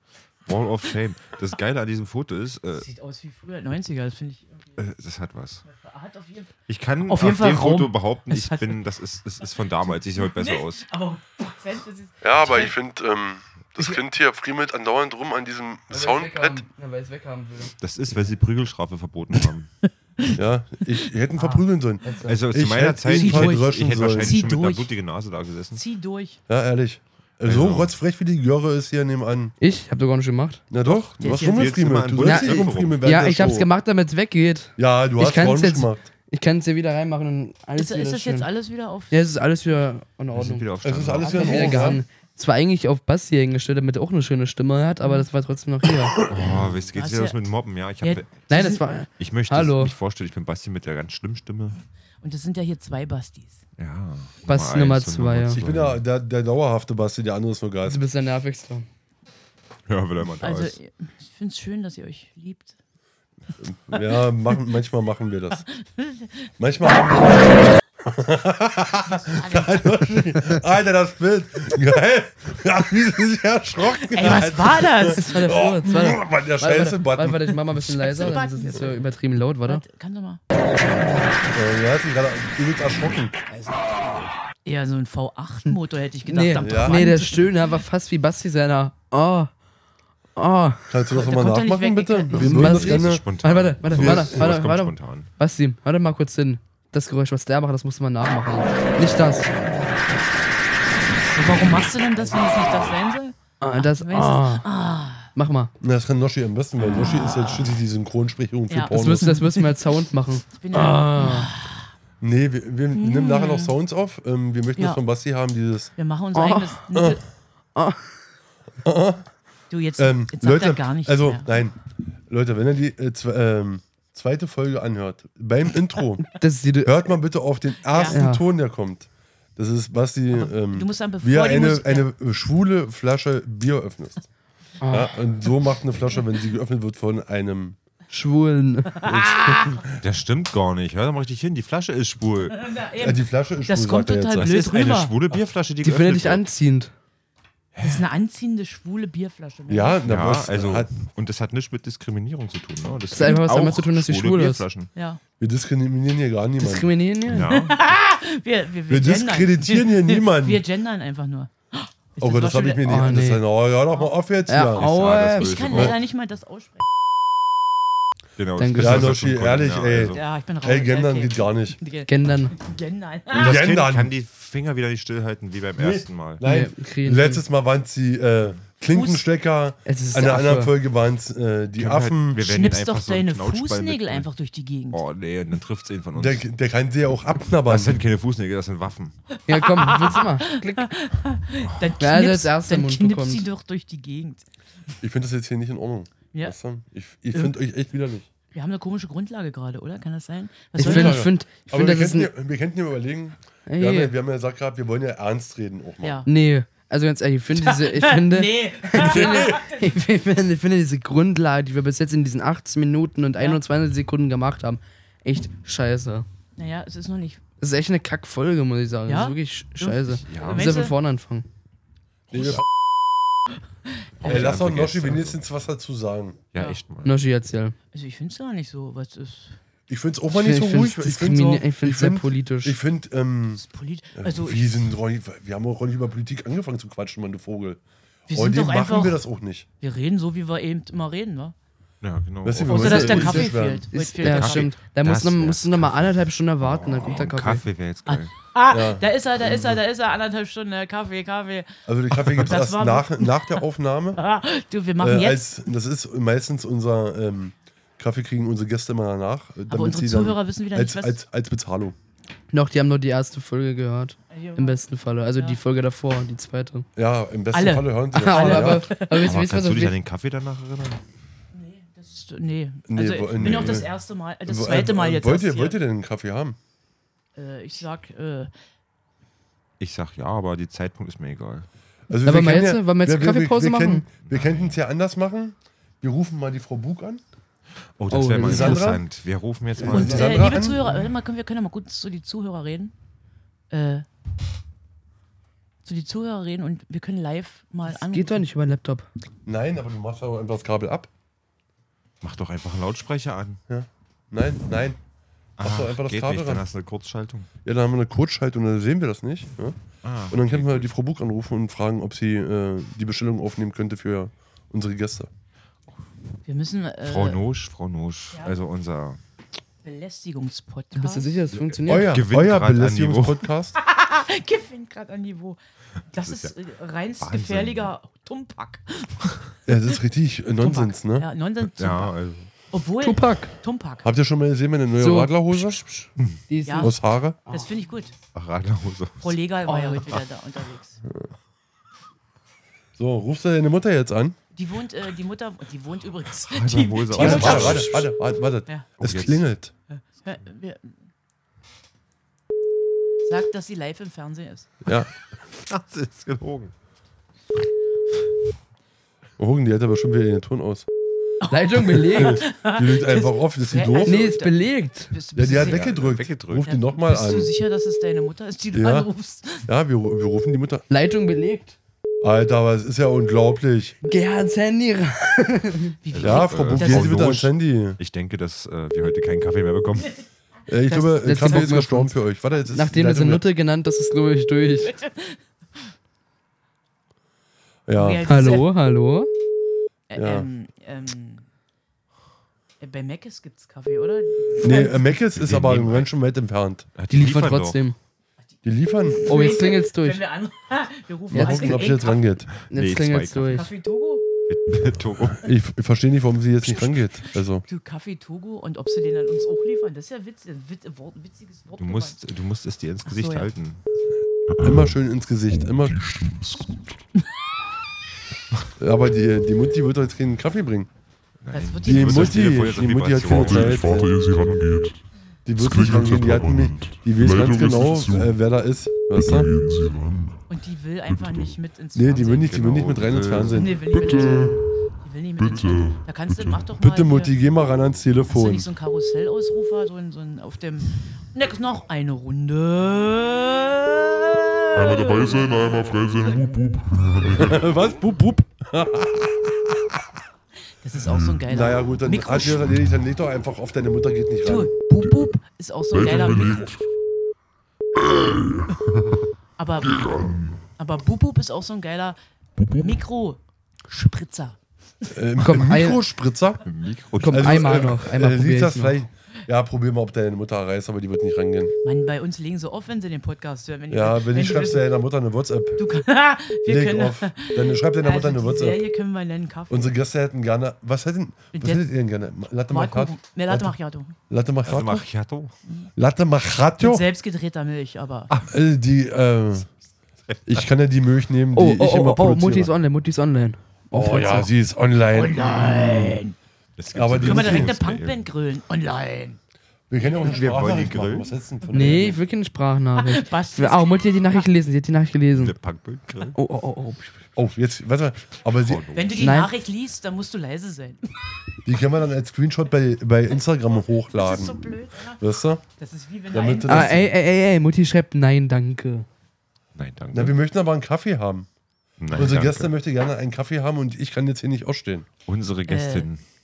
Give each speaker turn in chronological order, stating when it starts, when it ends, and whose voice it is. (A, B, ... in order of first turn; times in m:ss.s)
0:00.4-0:02.8 A
0:02.8-0:04.8 B
0:04.8-0:05.6 A
0:05.6-0:08.8 B
0:06.7-0:10.8 A
0:09.8-0:12.7 B
0:12.2-0:16.6 C
0:15.9-0:17.7 D
0:17.8-0:19.7 A
0:19.8-0:21.6 B
0:20.3-0:24.5 C
0:22.0-0:22.4 D
0:22.2-0:25.8 A
0:23.1-0:24.9 B
0:25.7-0:26.4 B
0:26.5-0:29.5 C
0:27.4-0:27.9 A
0:29.6-0:30.6 D
0:30.7-0:33.7 C
0:30.9-0:33.0 A
0:31.2-0:32.0 B
0:32.2-0:38.5 D
0:34.8-0:36.1 C
0:37.8-0:39.2 B
0:39.1-0:40.6 D
0:40.3-0:41.8 A
0:40.8-0:42.0 C
0:41.3-0:41.8 B
0:41.3-0:46.2 D
0:45.0-0:45.3 B
0:46.3-0:48.3 A
0:46.5-0:47.4 B
0:48.0-0:48.8 B
0:48.5-0:49.9 D
0:49.1-0:51.8 A
0:52.2-0:53.6 B
0:53.8-0:56.0 A
0:54.5-0:55.6 D
0:55.5-0:58.0 C
0:57.8-0:58.8 D
0:59.9-1:00.8 A
1:00.4-1:02.7 B
1:03.6-1:05.6 C
1:05.6-1:06.5 B
1:06.6-1:17.6 C
1:09.2-1:10.1 B
1:14.0-1:15.9 B
1:15.0-1:19.8 D
1:17.8-1:19.0 B
1:19.6-1:20.4 B
1:21.5-1:23.4 C
1:24.6-1:27.6 B
1:25.6-1:29.5 D
1:26.6-1:27.0 C
1:30.4-1:30.8 D
1:30.9-1:33.3 C
1:31.1-1:32.8 B
1:32.3-1:39.5 D
1:32.5-1:35.3 A
1:34.0-1:34.5 C
1:41.3-1:45.3 B
1:43.6-1:44.6 D
1:45.3-1:45.7 D
1:45.8-1:49.3 C
1:46.8-1:47.8 B
1:48.7-1:49.8 B
1:48.9-1:51.5 D
1:50.5-1:51.9 B
1:52.2-1:55.9 C
1:52.9-1:53.7 B
1:56.0-1:57.2 B
1:56.3-1:56.7 D
1:56.9-1:57.2 C
1:57.7-1:58.0 D
1:58.8-1:59.3 C
1:59.7-2:01.4 B
2:00.0-2:01.8 C
2:02.3-2:06.3 C
2:06.3-2:06.9 D
2:06.8-2:14.3 C
2:07.9-2:08.2 B
2:08.1-2:08.4 D
2:10.3-2:12.1 B
2:14.8-2:15.1 D
2:14.9-2:17.8 C
2:18.1-2:19.0 D
2:18.9-2:19.8 B
2:19.0-2:19.9 C
2:20.0-2:22.7 A
2:22.5-2:25.1 B
2:23.0-2:24.5 C
2:24.4-2:26.4 A
2:25.8-2:26.9 D
2:27.7-2:28.0 A
2:27.8-2:30.0 B
2:29.7-2:30.9 C
2:30.0-2:34.9 A
2:33.1-2:34.6 D
2:35.0-2:35.2 B
2:35.4-2:36.9 C
2:36.6-2:37.5 D
2:37.2-2:37.8 A
2:37.4-2:43.1 B
2:38.9-2:40.6 C
2:42.2-2:44.8 C
2:42.8-2:43.4 D
2:44.5-2:45.6 D
2:44.7-2:46.0 A
2:45.4-2:46.9 B
2:48.4-2:50.2 A
2:48.6-2:49.1 D
2:48.8-2:51.8 C
2:50.1-2:53.6 B
2:52.1-2:52.5 D
2:53.3-2:54.1 C
2:53.3-2:56.4 A
2:55.8-3:02.4 C
2:56.4-2:57.4 D
2:58.9-2:59.2 B
2:59.8-3:00.7 D
3:01.8-3:04.3 A
3:02.4-3:05.0 B
3:04.9-3:06.4 A
3:06.1-3:08.0 C
3:07.6-3:09.2 A
3:09.5-3:10.9 D
3:09.5-3:14.4 B
3:11.6-3:11.9 A
3:12.0-3:13.4 D
3:15.0-3:18.3 C
3:18.5-3:21.3 B
3:20.8-3:26.2 C
3:20.8-3:22.3 D
3:23.7-3:24.1 D
3:26.0-3:26.3 B
3:26.2-3:36.2 D
3:27.6-3:29.9 B
3:28.9-3:29.6 C
3:36.6-3:37.4 B
3:37.6-3:41.5 D
3:39.1-3:40.9 B
3:40.1-3:40.8 A
3:42.3-3:42.7 C
3:44.0-3:44.6 B
3:44.2-3:45.4 A
3:44.2-3:46.4 C
3:46.5-3:47.2 A
3:47.0-3:47.8 D
3:47.9-3:49.6 B
3:49.9-3:53.6 C
3:50.3-3:52.8 D
3:53.6-3:54.9 B
3:54.2-3:59.6 C
3:58.3-3:59.2 B
3:59.8-4:01.5 B
4:02.0-4:03.4 A
4:02.4-4:03.9 C
4:02.7-4:04.7 B
4:03.1-4:07.6 D
4:04.2-4:08.3 A
4:08.1-4:11.7 B
4:08.7-4:09.8 C
4:11.9-4:14.2 C
4:12.3-4:13.6 B
4:14.2-4:15.6 B
4:15.0-4:21.9 C
4:19.7-4:21.2 B
4:22.5-4:26.8 D
4:24.3-4:24.8 B
4:27.0-4:28.9 C
4:27.5-4:29.2 B
4:28.1-4:29.9 D
4:29.1-4:31.0 A
4:31.5-4:35.8 B
4:32.9-4:33.9 C
4:34.4-4:36.6 C
4:37.4-4:38.5 B
4:39.8-4:41.7 A
4:42.1-4:47.2 C
4:42.2-4:44.1 D
4:44.2-4:44.8 A
4:48.0-4:50.6 A
4:48.1-4:48.8 D
4:48.4-4:49.0 C
4:49.8-4:50.8 C
4:49.8-4:52.9 B
4:53.7-4:54.0 B
4:55.8-4:58.4 B
4:57.9-4:59.1 D
4:59.4-5:01.1 C
5:02.2-5:03.6 A
5:03.7-5:05.0 C
5:05.6-5:07.5 A
5:05.6-5:06.6 C
5:07.6-5:15.3 C
5:10.0-5:10.9 A
5:16.4-5:17.4 B
5:17.0-5:19.2 A
5:19.8-5:21.3 B
5:20.9-5:22.2 D
5:21.5-5:23.7 C
5:21.9-5:23.4 A
5:23.8-5:25.6 B
5:26.1-5:29.4 B
5:26.2-5:26.5 A
5:27.2-5:27.9 A
5:29.6-5:31.3 C
5:30.6-5:32.2 B
5:31.6-5:32.5 A
5:32.7-5:34.1 B
5:33.0-5:33.5 D
5:34.0-5:35.8 C
5:35.0-5:36.9 D
5:36.6-5:36.9 B
5:36.8-5:37.4 C
5:37.5-5:38.1 B
5:38.3-5:39.4 A
5:39.2-5:41.0 B
5:43.0-5:44.4 C
5:44.5-5:48.0 B
5:46.5-5:48.1 A
5:47.1-5:49.7 C
5:49.0-5:49.4 A
5:49.9-5:50.9 B
5:53.2-5:54.7 B
5:54.8-5:55.1 C
5:55.5-5:56.7 A
5:59.4-6:00.9 C
6:01.4-6:05.9 B
6:01.5-6:02.4 D
6:02.1-6:04.2 C
6:04.0-6:05.1 D
6:05.4-6:07.5 C
6:05.5-6:06.7 A
6:06.6-6:09.7 B
6:08.7-6:09.1 C
6:09.6-6:10.8 C
6:10.9-6:11.8 D
6:12.2-6:14.0 C
6:14.1-6:15.9 D
6:16.0-6:17.2 B
6:16.1-6:20.2 A
6:16.2-6:18.0 C
6:20.7-6:23.4 C
6:20.9-6:22.2 D
6:20.9-6:21.6 B
6:22.7-6:24.9 D
6:24.8-6:25.4 B
6:27.9-6:28.2 C
6:27.9-6:28.7 B
6:28.3-6:29.3 D
6:30.1-6:31.4 B
6:30.2-6:30.5 C
6:32.8-6:35.0 B
6:34.6-6:36.9 C
6:35.3-6:36.1 A
6:36.9-6:37.8 A
6:37.1-6:38.0 D
6:38.6-6:39.2 C
6:39.1-6:42.3 B
6:39.2-6:40.2 D
6:41.3-6:41.8 D
6:41.3-6:42.5 C
6:42.7-6:43.6 A
6:42.7-6:43.7 D
6:43.5-6:44.2 B
6:44.5-6:45.5 A
6:45.4-6:47.6 C
6:47.3-6:52.2 B
6:51.8-6:53.8 A
6:53.0-6:53.5 B
6:54.5-6:54.9 E
6:54.6-6:56.0 C
6:55.6-6:56.7 E
6:58.8-7:00.9 C
7:01.4-7:04.0 A
7:01.5-7:02.6 B
7:01.8-7:04.1 C
7:03.3-7:05.0 E
7:05.4-7:09.5 C
7:05.5-7:08.4 E
7:09.1-7:10.4 E
7:10.5-7:12.8 B
7:11.1-7:11.6 E
7:11.9-7:13.8 C
7:12.5-7:13.7 A
7:13.4-7:17.3 B
7:13.9-7:14.6 E
7:15.4-7:16.7 E
7:16.8-7:18.7 C
7:18.3-7:27.0 B
7:24.7-7:27.6 E
7:27.3-7:29.6 C
7:30.8-7:32.8 B
7:31.5-7:34.7 C
7:34.4-7:36.7 B
7:35.9-7:36.8 E
7:38.2-7:38.7 E
7:39.6-7:44.6 B
7:39.9-7:40.5 E
7:42.6-7:42.9 E
7:45.1-7:46.6 C
7:45.4-7:46.0 D
7:46.6-7:47.9 A
7:47.2-7:49.0 D
7:47.3-7:51.7 C
7:51.8-7:54.9 B
7:53.9-7:55.8 C
7:55.8-7:59.9 B
7:56.7-7:58.8 C
7:59.7-8:03.7 C
8:01.5-8:01.8 B
8:02.7-8:04.2 B
8:04.3-8:05.1 C
8:04.6-8:05.5 A
8:06.0-8:07.0 C
8:06.8-8:08.3 B
8:08.4-8:09.7 C
8:10.2-8:10.7 A
8:10.4-8:12.7 C
8:11.5-8:14.5 D
8:13.9-8:16.2 C
8:15.1-8:16.4 B
8:16.8-8:18.2 A
8:16.9-8:17.8 C
8:17.2-8:19.4 B
8:19.9-8:22.2 C
8:20.0-8:20.7 B
8:20.2-8:21.3 A
8:21.7-8:25.5 D
8:23.0-8:24.4 B
8:25.3-8:26.4 A
8:26.3-8:27.2 D
8:27.4-8:29.1 C
8:28.5-8:29.3 A
8:28.9-8:31.2 B
8:29.2-8:29.5 D
8:31.6-8:35.6 C
8:34.1-8:35.2 B
8:35.8-8:37.0 B
8:36.3-8:37.1 C
8:36.7-8:39.0 D
8:39.7-8:40.4 A
8:40.1-8:41.5 C
8:42.0-8:42.7 A
8:42.1-8:45.1 C
8:45.2-8:46.2 A
8:45.7-8:46.1 B